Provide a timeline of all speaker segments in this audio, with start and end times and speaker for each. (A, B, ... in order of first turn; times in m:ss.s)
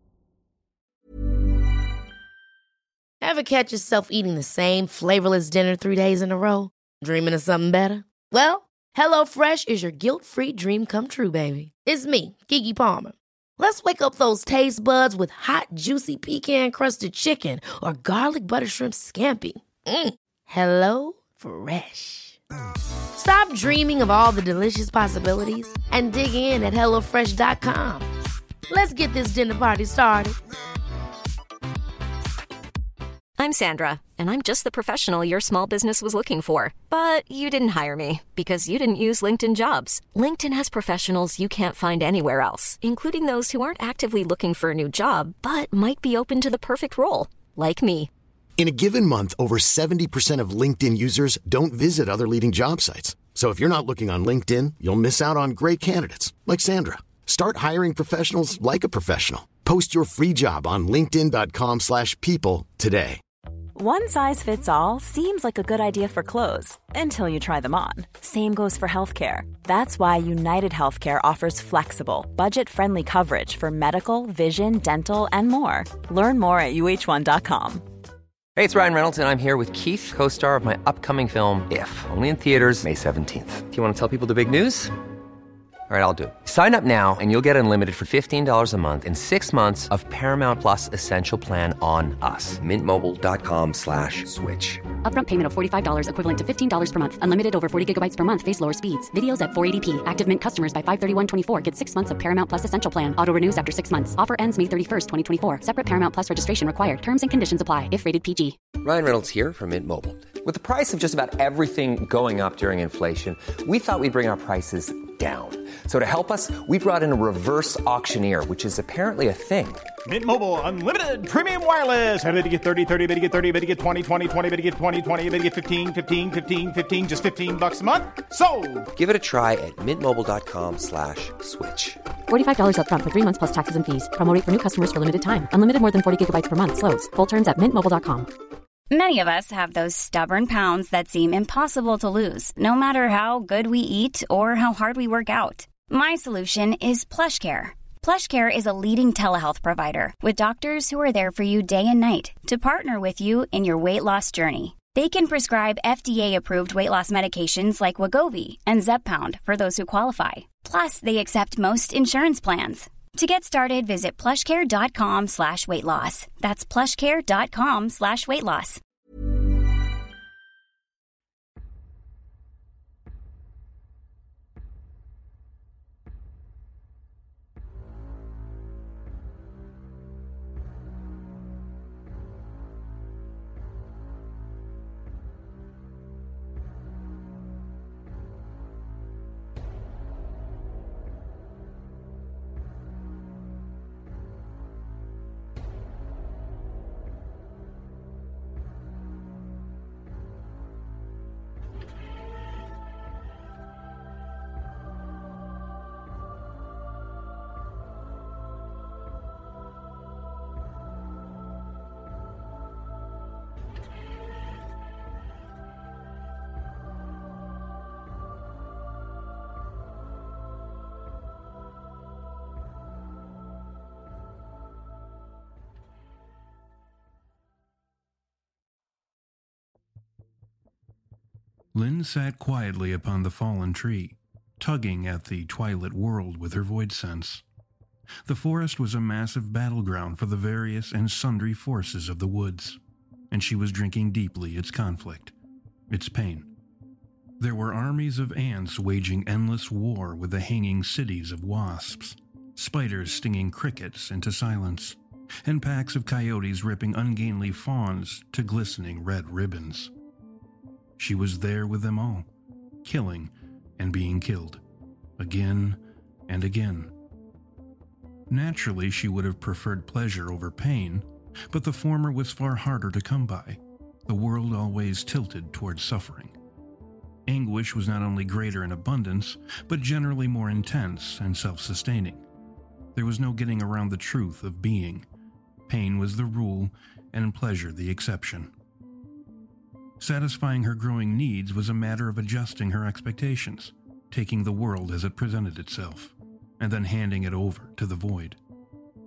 0:03.2-0:22.4 A
0:23.1-0:28.1 A
0:28.7-0:30.4 A
0:33.4-0:48.1 B
0:48.6-1:03.2 C
1:03.7-1:17.8 D
1:18.6-1:24.9 E
1:25.9-1:34.8 E
1:35.0-1:48.6 F
1:48.8-1:59.9 E
2:00.0-2:08.9 G
2:08.9-2:12.0 E
2:12.3-2:18.3 F
2:18.9-2:48.8 H
3:51.7-3:57.4 I
3:58.2-4:02.8 I
4:03.3-4:05.3 I
4:05.9-4:06.5 I
4:07.4-4:19.9 I
4:21.0-4:22.3 I
4:22.8-4:24.6 I
4:25.2-4:26.9 I
4:28.3-4:36.4 I
4:37.3-4:42.2 I
4:42.9-4:45.0 I
4:45.7-4:48.5 I
4:50.0-4:58.4 I